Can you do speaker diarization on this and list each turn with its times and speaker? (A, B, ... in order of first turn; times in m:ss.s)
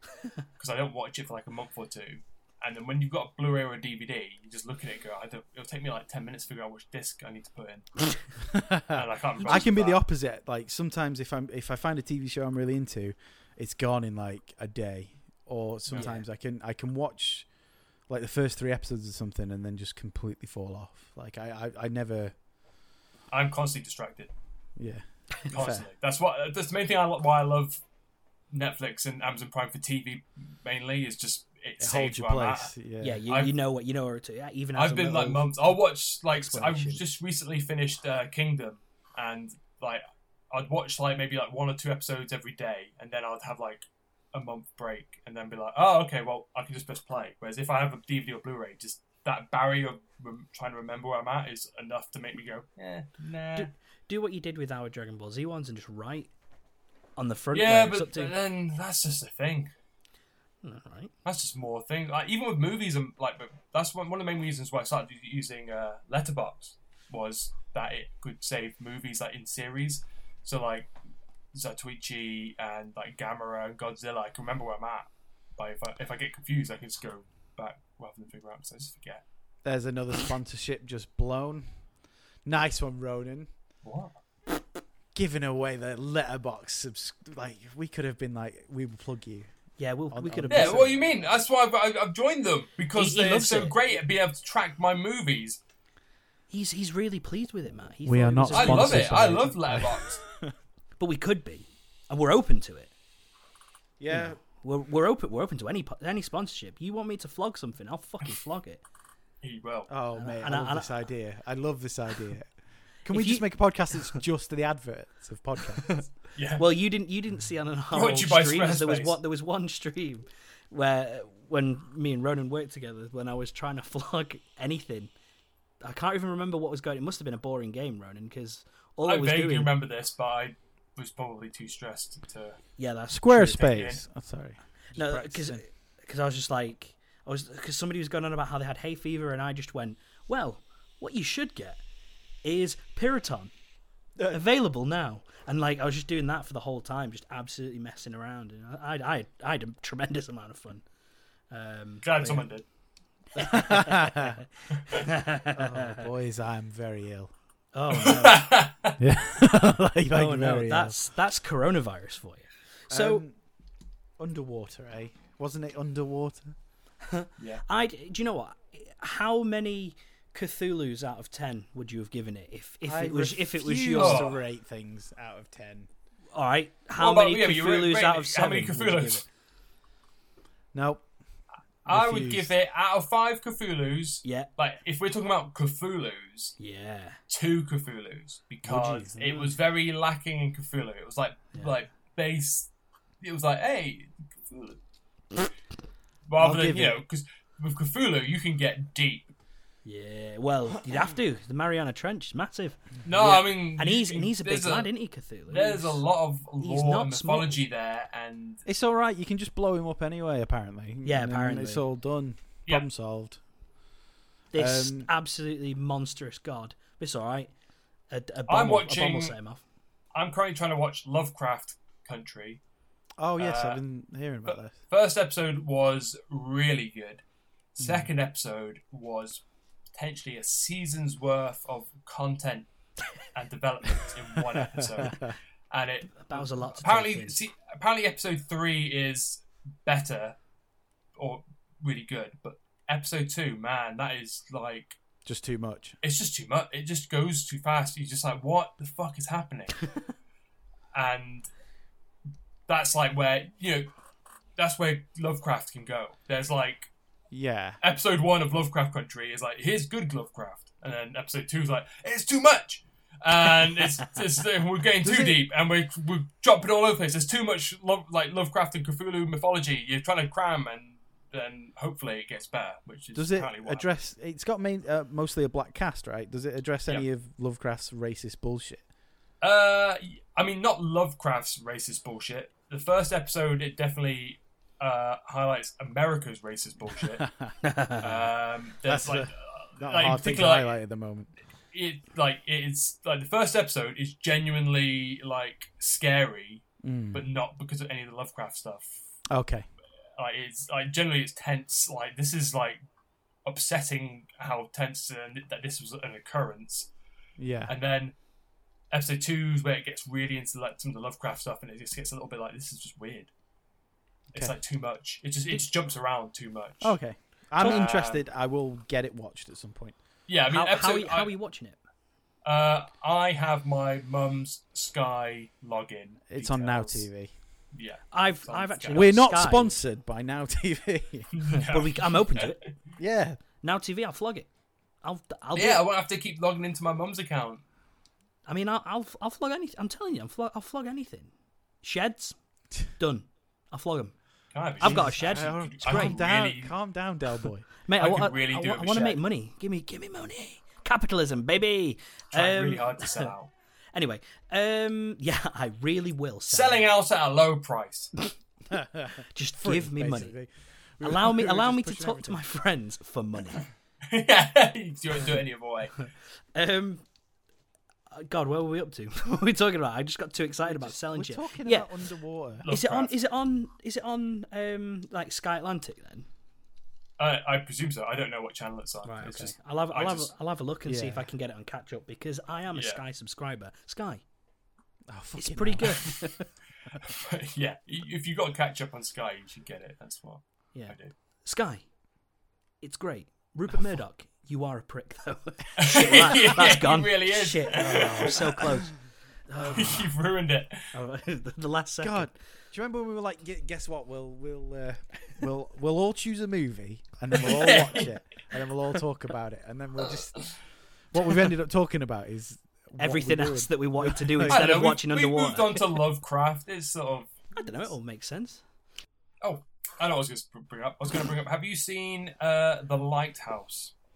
0:00.6-0:08.1 A
0:08.5-0:17.5 B
0:08.9-0:10.0 A
0:15.9-0:16.2 C
0:18.1-0:22.3 B
0:23.3-0:24.3 A
0:24.8-0:25.9 B
0:25.5-0:27.8 A
0:28.5-0:32.7 A
0:31.8-0:33.2 B
0:33.0-0:35.7 C
0:33.3-0:33.5 A
0:34.7-0:53.7 A
0:36.4-0:37.0 C
0:53.5-0:56.3 C
0:57.2-0:58.3 C
0:57.5-0:59.7 A
1:00.6-1:01.1 C
1:01.2-1:10.9 A
1:11.5-1:19.2 A
1:19.6-1:21.7 B
1:22.4-1:23.5 B
1:23.8-1:24.1 A
1:25.1-1:29.5 B
1:29.8-1:31.0 C
1:30.1-1:31.1 B
1:30.5-1:35.6 A
1:32.9-1:33.8 C
1:36.5-1:39.4 C
1:38.0-1:40.5 B
1:38.5-1:40.2 A
1:41.0-1:42.9 C
1:44.0-1:44.4 B
1:44.1-1:48.8 C
1:49.4-1:49.9 A
1:49.9-1:52.5 B
1:50.1-1:51.0 C
1:53.0-1:56.1 B
1:53.1-1:54.2 C
1:55.8-2:05.1 C
1:56.3-1:56.7 A
1:57.9-1:59.2 A
2:05.8-2:09.7 C
2:09.0-2:12.6 A
2:12.8-2:13.7 C
2:13.1-2:15.6 B
2:13.4-2:14.0 A
2:14.9-2:21.8 C
2:22.4-2:23.5 C
2:24.3-2:30.8 C
2:31.5-2:32.5 C
2:32.0-2:32.6 A
2:33.3-2:36.0 C
2:33.4-2:34.4 B
2:34.7-2:35.0 A
2:35.5-2:37.3 B
2:37.7-2:38.6 C
2:37.9-2:39.0 A
2:39.0-2:41.0 B
2:40.1-2:43.2 C
2:42.9-2:43.3 B
2:44.2-2:46.5 B
2:47.0-2:54.3 C
2:52.8-2:55.9 B
2:53.9-2:54.4 A
2:56.3-2:59.2 C
2:57.0-2:59.2 A
3:00.7-3:01.1 B
3:01.8-3:06.6 A
3:01.9-3:02.5 B
3:06.6-3:07.2 C
3:07.3-3:12.7 A
3:08.7-3:09.0 B
3:08.7-3:09.5 C
3:13.2-3:14.8 A
3:16.3-3:19.3 A
3:16.4-3:17.0 B
3:19.8-3:26.0 C
3:23.0-3:24.9 A
3:25.5-3:28.6 A
3:26.6-3:27.6 C
3:28.6-3:33.4 B
3:31.0-3:31.8 C
3:34.5-3:37.5 C
3:34.5-3:35.1 B
3:38.1-3:39.6 C
3:38.5-3:39.3 A
3:40.1-3:42.6 A
3:43.2-3:44.8 B
3:43.4-3:43.8 A
3:44.4-3:47.2 A
3:47.8-3:49.4 A
3:47.8-3:48.1 B
3:49.9-3:52.7 A
3:53.3-4:00.4 A
3:54.5-3:55.3 B
3:56.1-3:57.4 C
4:01.2-4:05.0 A
4:05.2-4:06.0 B
4:06.0-4:09.9 A
4:10.9-4:11.5 A
4:12.7-4:13.9 A
4:14.6-4:16.9 A
4:17.3-4:17.8 B
4:17.8-4:33.9 A
4:25.0-4:25.4 B
4:33.1-4:38.8 B
4:39.4-4:47.3 A
4:47.2-4:47.5 B
4:47.6-4:48.2 C
4:48.0-4:50.8 A
4:48.8-4:51.3 B
4:51.7-4:59.0 A
4:56.8-4:57.2 B
4:59.3-4:59.7 B
5:00.2-5:02.8 A
5:03.4-5:06.9 A
5:07.4-5:07.7 B
5:07.7-5:08.1 A
5:08.9-5:13.3 A
5:14.3-5:17.0 A
5:16.8-5:20.0 B
5:17.6-5:17.8 C
5:17.6-5:18.2 A
5:20.3-5:21.3 A
5:20.5-5:21.8 C
5:22.4-5:27.0 A
5:26.3-5:27.3 B
5:27.7-5:29.2 A
5:28.1-5:29.8 C
5:28.9-5:31.3 B
5:31.3-5:32.7 A
5:31.5-5:32.6 C
5:33.0-5:33.4 B
5:33.6-5:34.5 C
5:35.0-5:35.8 C
5:35.5-5:37.6 A
5:38.4-5:41.3 C
5:41.8-5:42.4 C
5:43.0-5:44.1 C
5:44.5-5:46.7 A
5:44.8-5:46.2 C
5:44.8-5:47.6 B
5:47.8-5:53.3 C
5:47.9-5:49.2 A
5:52.3-5:53.5 A
5:53.9-5:56.9 C
5:56.5-5:58.1 A
5:58.7-6:02.4 B
5:59.3-6:00.3 C
6:01.0-6:03.6 C
6:04.1-6:06.1 A
6:06.5-6:07.0 C
6:08.1-6:11.9 C
6:10.6-6:12.7 B
6:12.6-6:13.1 A
6:12.7-6:16.3 C
6:17.2-6:20.3 A
6:19.0-6:24.2 C
6:20.9-6:21.3 B
6:22.7-6:23.0 A
6:25.1-6:26.1 B
6:25.4-6:26.5 C
6:27.0-6:31.1 A
6:30.7-6:31.8 C
6:32.8-6:38.9 C
6:35.8-6:38.6 A
6:39.5-6:40.1 C
6:39.7-6:40.9 A
6:40.9-6:42.3 C
6:42.0-6:50.5 B
6:47.3-6:48.1 A
6:51.1-6:54.7 B
6:53.0-6:55.8 C
6:54.5-6:57.3 A
6:57.5-6:58.6 C
6:59.4-7:03.9 A